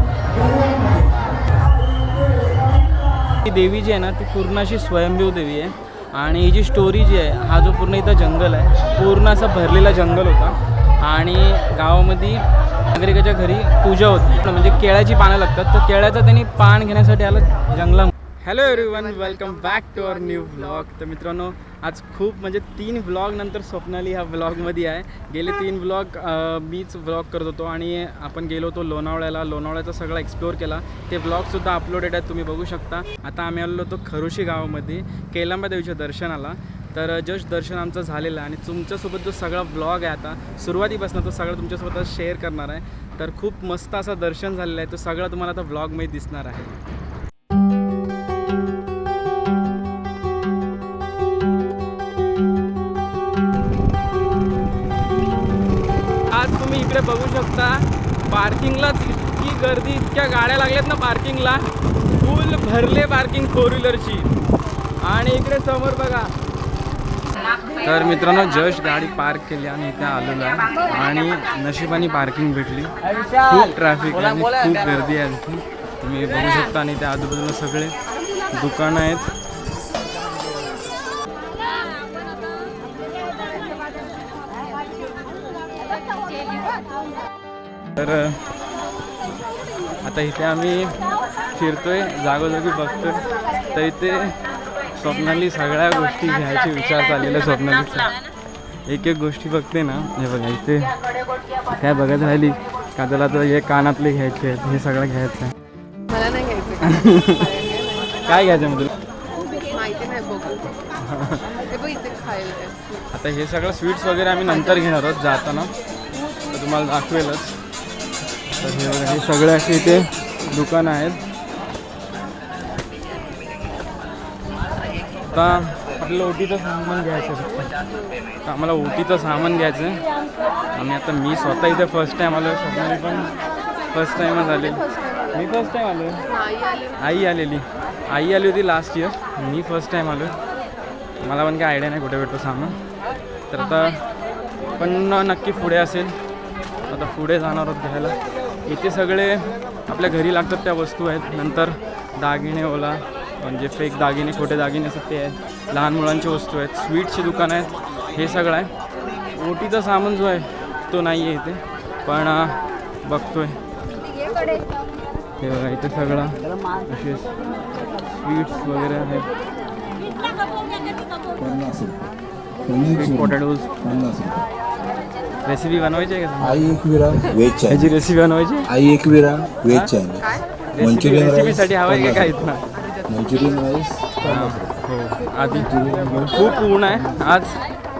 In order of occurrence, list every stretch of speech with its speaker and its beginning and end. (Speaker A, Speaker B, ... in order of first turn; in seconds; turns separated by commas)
Speaker A: 3.3-46.8, Speaker A: 56.3-64.3, Speaker A: 65.0-66.3, Speaker A: 67.8-78.0, Speaker A: 78.5-79.3, Speaker A: 88.0-88.4, Speaker A: 90.0-94.4, Speaker A: 94.9-98.1, Speaker A: 98.8-101.0, Speaker A: 101.7-105.5, Speaker B: 106.1-106.8, Speaker A: 106.8-108.9, Speaker B: 109.6-110.8, Speaker A: 110.9-111.6, Speaker B: 111.7-112.9, Speaker A: 113.1-115.7, Speaker A: 116.5-117.5, Speaker A: 118.5-121.2, Speaker A: 125.3-127.8, Speaker A: 128.4-130.0, Speaker A: 130.7-133.3, Speaker A: 133.9-136.2, Speaker A: 136.9-140.4, Speaker A: 141.2-142.8, Speaker A: 143.5-144.0, Speaker A: 144.7-146.2, Speaker A: 146.9-158.7, Speaker A: 159.3-163.6, Speaker A: 165.4-167.3, Speaker A: 168.2-169.3, Speaker C: 171.4-172.0, Speaker C: 172.7-174.4, Speaker A: 172.9-173.7, Speaker A: 175.4-176.8, Speaker C: 176.4-178.0, Speaker A: 177.7-178.7, Speaker C: 178.7-182.3, Speaker A: 179.7-179.9, Speaker A: 180.7-182.7, Speaker C: 183.1-184.7, Speaker A: 184.2-187.6, Speaker C: 185.6-186.5